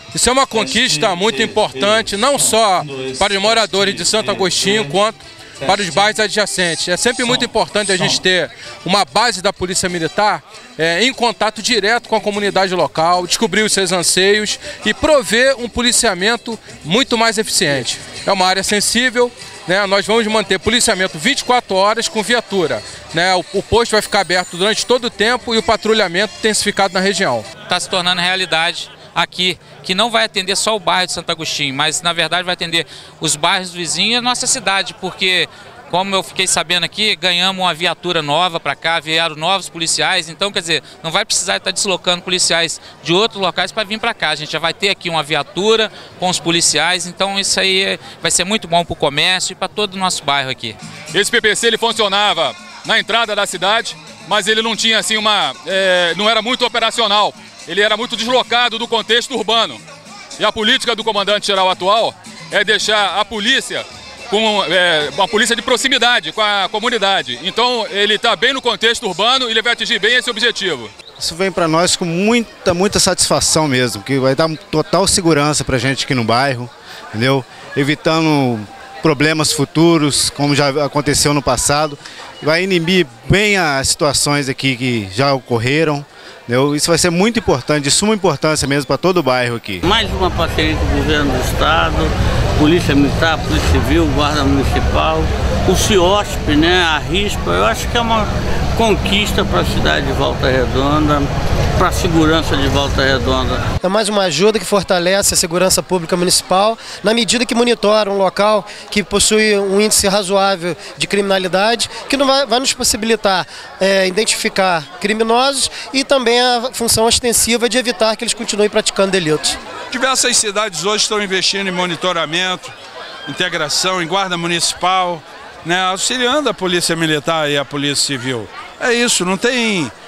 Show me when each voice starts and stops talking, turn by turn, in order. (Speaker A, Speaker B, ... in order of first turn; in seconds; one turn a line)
Speaker A: 0.1-27.5
Speaker B: 27.7-50.8
Speaker C: 51.1-59.8
Speaker C: 60.4-70.9
Speaker D: 71.2-89.8
Speaker E: 89.8-103.7
Speaker F: 103.8-119.6
Speaker G: 119.9-122.7
Speaker G: 123.3-129.9